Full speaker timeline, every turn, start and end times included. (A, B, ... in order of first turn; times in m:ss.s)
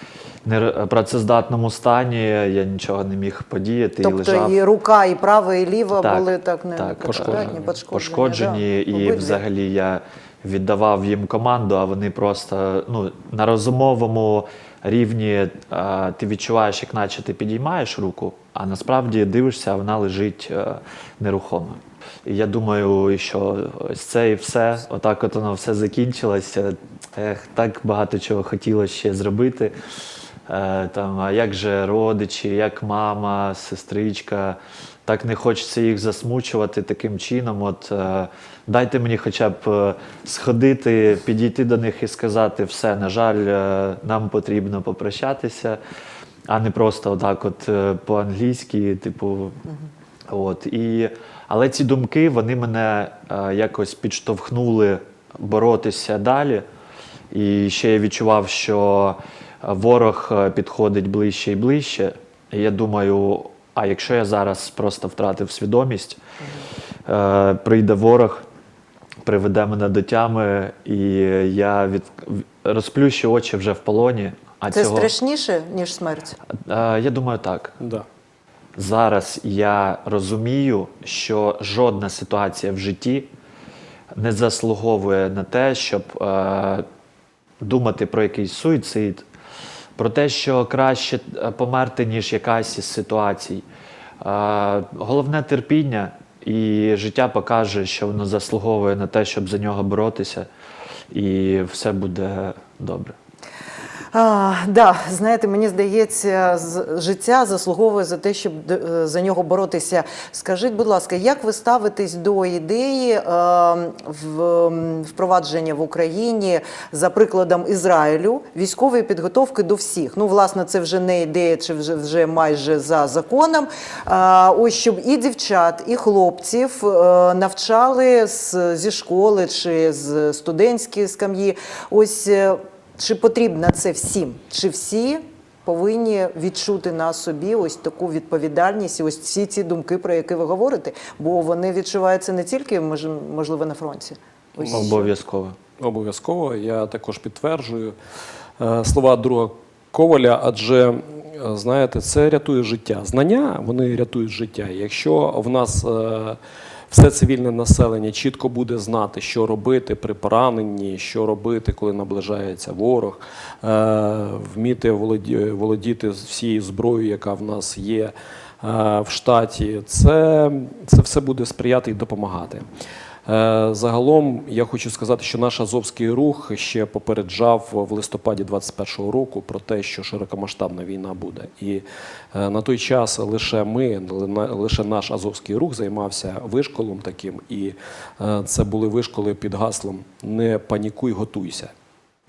0:00.4-0:04.6 A
0:04.0-0:09.4 B
0:06.0-0:29.8 A
0:07.0-0:07.7 C
0:30.5-0:45.8 A
0:46.5-0:49.6 A
0:50.3-0:56.6 A
0:57.3-1:06.2 A
1:07.0-1:08.4 A
1:09.2-1:15.1 A
1:14.7-1:16.4 B
1:16.6-1:17.8 A
1:18.8-1:23.3 A
1:24.1-1:26.8 A
1:27.6-1:29.2 A
1:30.0-1:33.6 A
1:34.2-1:40.5 A
1:41.1-1:43.2 A
1:44.1-2:25.1 B
2:24.6-2:25.6 A
2:25.8-2:27.9 C
2:28.6-2:36.4 C
2:36.9-2:52.6 C
2:53.2-3:11.7 C